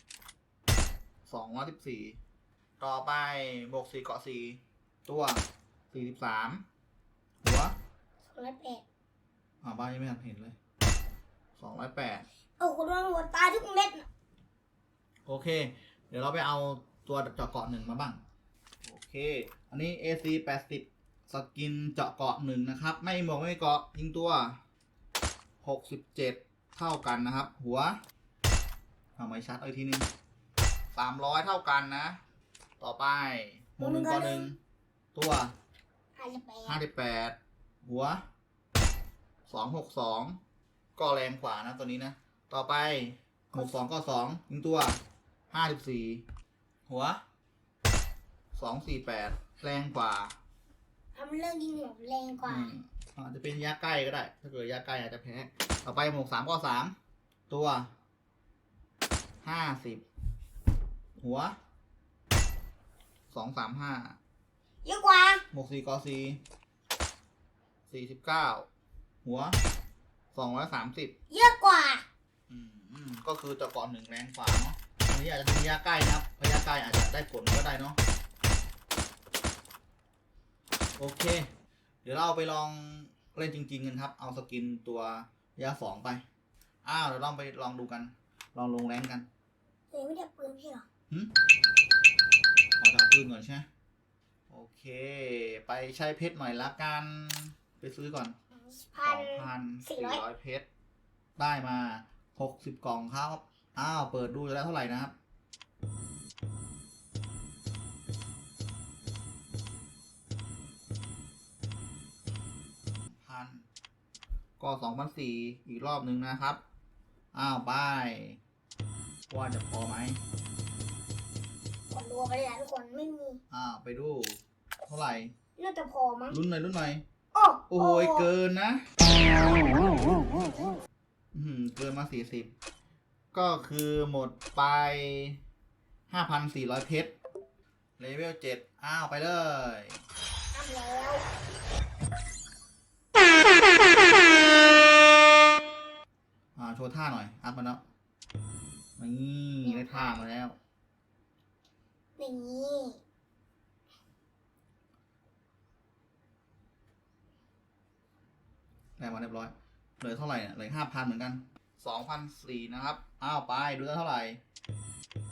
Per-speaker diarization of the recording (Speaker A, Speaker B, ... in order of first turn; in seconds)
Speaker A: 1.2-2.2, 2.8-6.6, 7.4-7.7, 9.6-10.6, 11.6-12.2, 15.2-18.2, 18.8-24.6, 25.6-27.9, 29.2-30.1, 30.9-32.1, 32.8-34.6, 35.1-35.5, 36.6-38.2, 39.5-40.4, 41.0-45.0, 45.5-46.2, 46.9-47.2, 48.5-50.4, 52.5-56.9, 57.5-57.9, 59.4-60.0, 61.2-61.5, 63.3-64.2, 65.5-66.4, 67.9-68.7, 69.2-69.6, 70.3-71.1, 72.5-78.0, 81.0-81.5, 82.0-86.2, 86.8-89.3, 92.8-93.7, 94.5-98.3, 99.0-100.7, 101.4-105.1, 113.1-113.7, 114.6-116.6, 117.3-118.4, 119.3-120.2, 123.5-125.3, 126.3-127.0, 127.7-128.9, 131.3-132.5, 133.3-135.4, 136.1-137.1, 138.0-140.0, 146.6-147.8, 149.0-150.6, 159.0-164.4
Speaker B: 8.2-8.8, 12.6-14.1, 33.8-34.5, 36.1-36.8, 51.1-52.7, 64.8-65.4, 71.3-72.0, 89.9-90.8, 98.6-100.2, 121.9-123.4, 125.6-126.4, 127.3-128.3, 130.1-130.5, 140.5-141.2, 149.6-150.2, 152.2-153.0